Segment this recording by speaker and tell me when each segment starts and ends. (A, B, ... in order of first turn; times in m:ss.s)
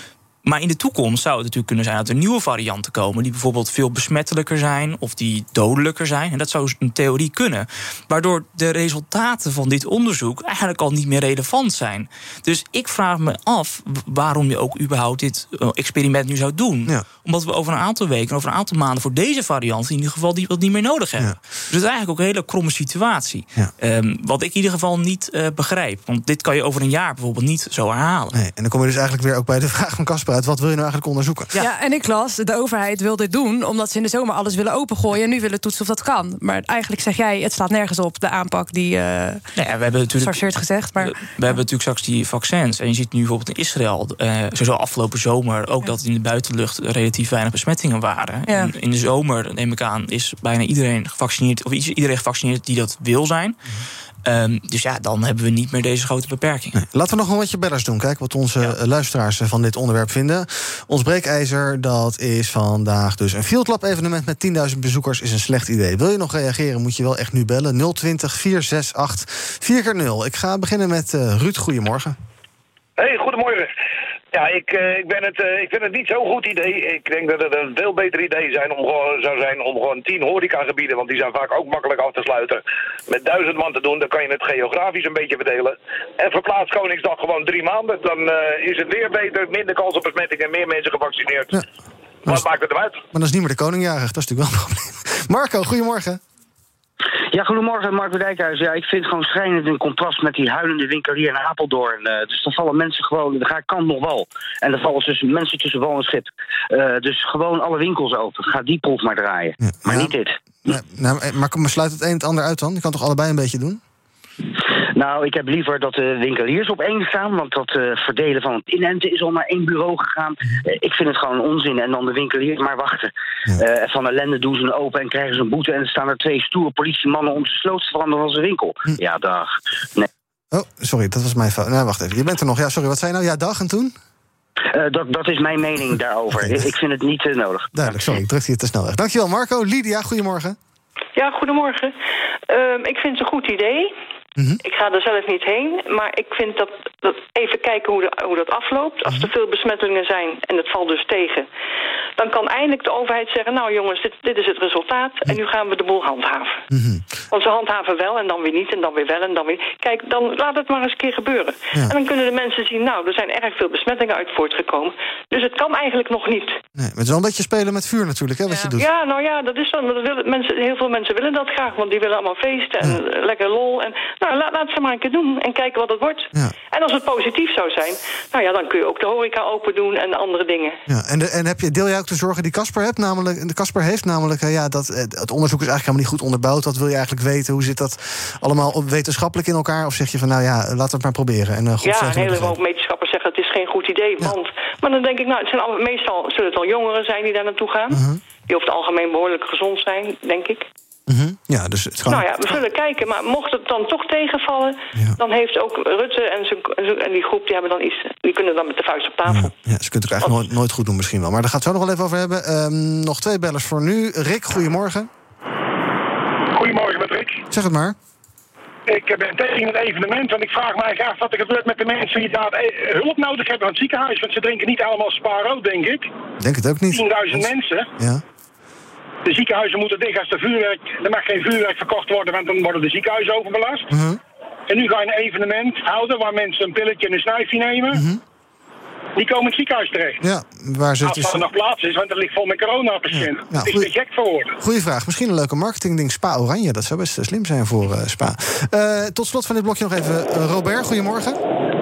0:00.4-0:28.4 A
0:28.3-0:31.5 B
0:31.6-0:39.4 C
0:39.6-0:40.5 A
0:40.2-0:41.6 C
0:41.0-0:53.6 A
0:54.2-0:56.8 A
0:56.7-1:12.2 B
1:13.0-1:13.7 D
1:14.3-1:31.6 D
1:32.3-1:33.0 D
1:33.1-1:36.2 B
1:37.3-1:50.3 E
1:49.6-1:53.8 B
1:54.9-2:10.1 E
2:10.5-2:13.9 B
2:14.7-2:17.7 E
2:16.3-2:16.7 B
2:17.7-2:20.6 B
2:21.2-2:21.9 F
2:22.5-2:23.9 F
2:24.4-2:24.6 B
2:24.6-2:31.4 F
2:32.2-2:36.6 F
2:36.7-2:37.0 B
2:37.3-2:46.6 F
2:46.8-2:48.9 B
2:48.7-3:00.8 F
3:00.9-3:12.6 B
3:11.8-3:20.6 F
3:17.9-3:18.2 B
3:21.1-3:22.6 B
3:22.1-3:29.5 F
3:29.3-3:35.1 B
3:36.5-3:37.4 G
3:37.5-3:38.0 B
3:38.9-3:46.1 G
3:46.4-3:48.2 B
3:46.9-3:47.9 G
3:49.2-3:53.9 G
3:53.9-3:54.2 B
3:54.7-3:58.0 G
3:57.9-3:58.2 B
3:59.2-4:00.2 G
4:00.2-4:01.4 B
4:01.0-4:04.6 G
4:03.1-4:03.9 B
4:04.6-4:11.4 B